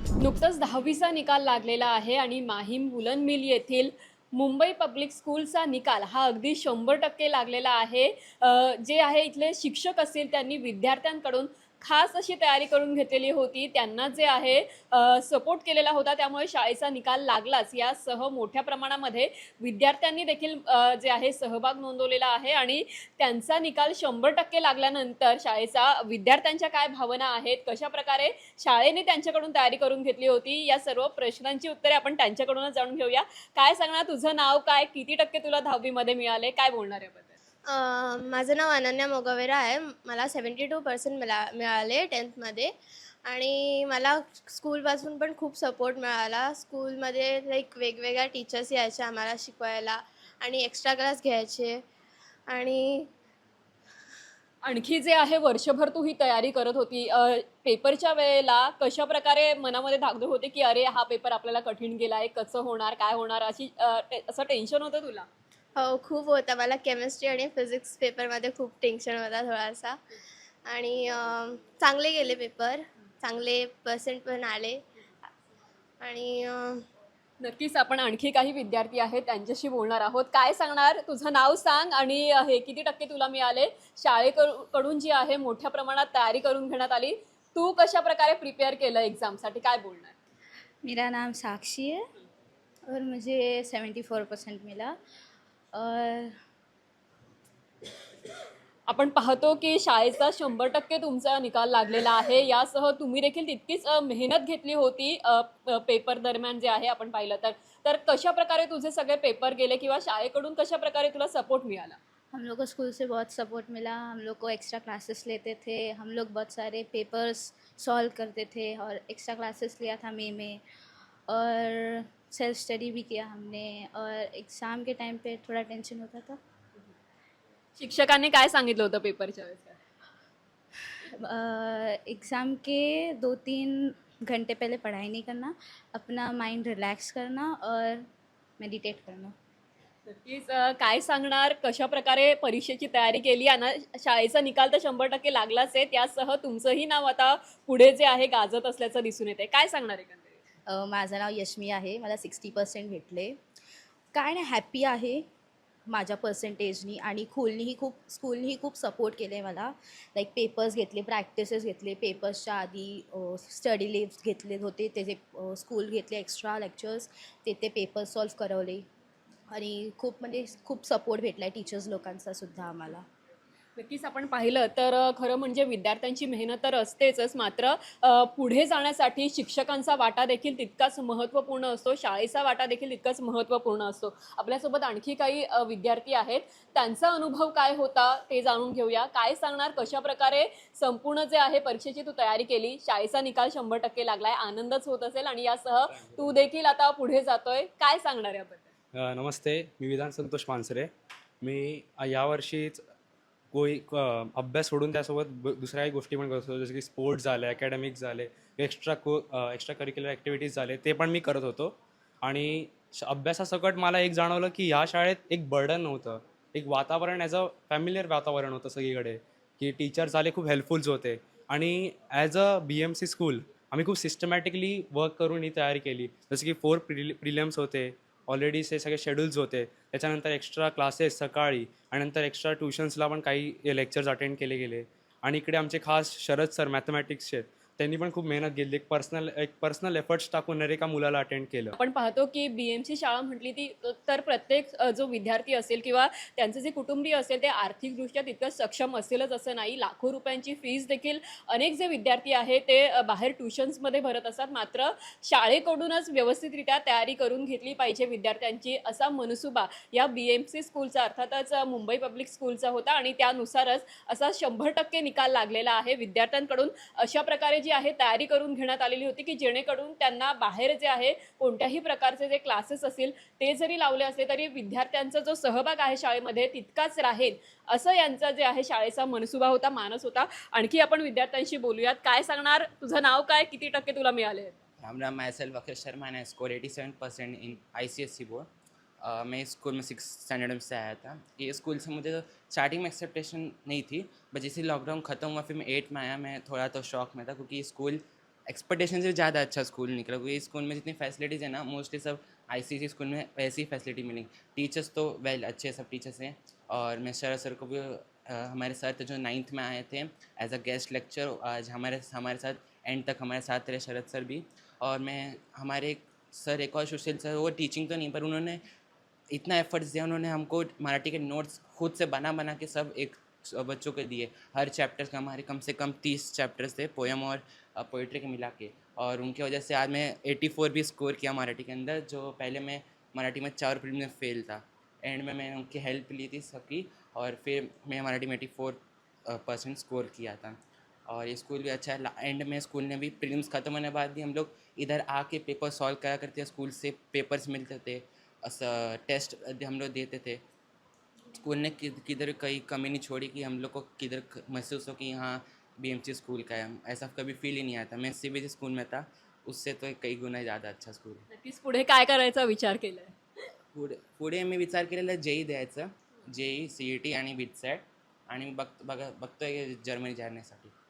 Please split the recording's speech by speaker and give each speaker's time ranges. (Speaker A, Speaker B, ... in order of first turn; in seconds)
Speaker A: 0.2-37.3, 54.6-65.3, 77.4-90.1, 98.9-112.0, 127.8-129.8, 140.1-150.4, 173.8-198.7, 241.8-284.6, 361.3-363.1
Speaker B: 37.6-51.8, 52.5-53.1, 65.7-74.8, 76.0-76.8
Speaker C: 90.8-92.0, 92.9-94.9, 95.8-96.3, 112.3-120.6, 121.3-126.3, 131.2-138.0, 138.6-139.3
Speaker D: 150.7-153.4, 154.1-155.2, 155.9-168.9, 169.5-173.0
Speaker E: 195.9-196.3, 198.9-200.9, 201.4-202.8, 203.5-241.7
Speaker F: 284.8-288.5, 289.0-318.6, 319.3-350.4, 351.3-361.2, 363.7-370.7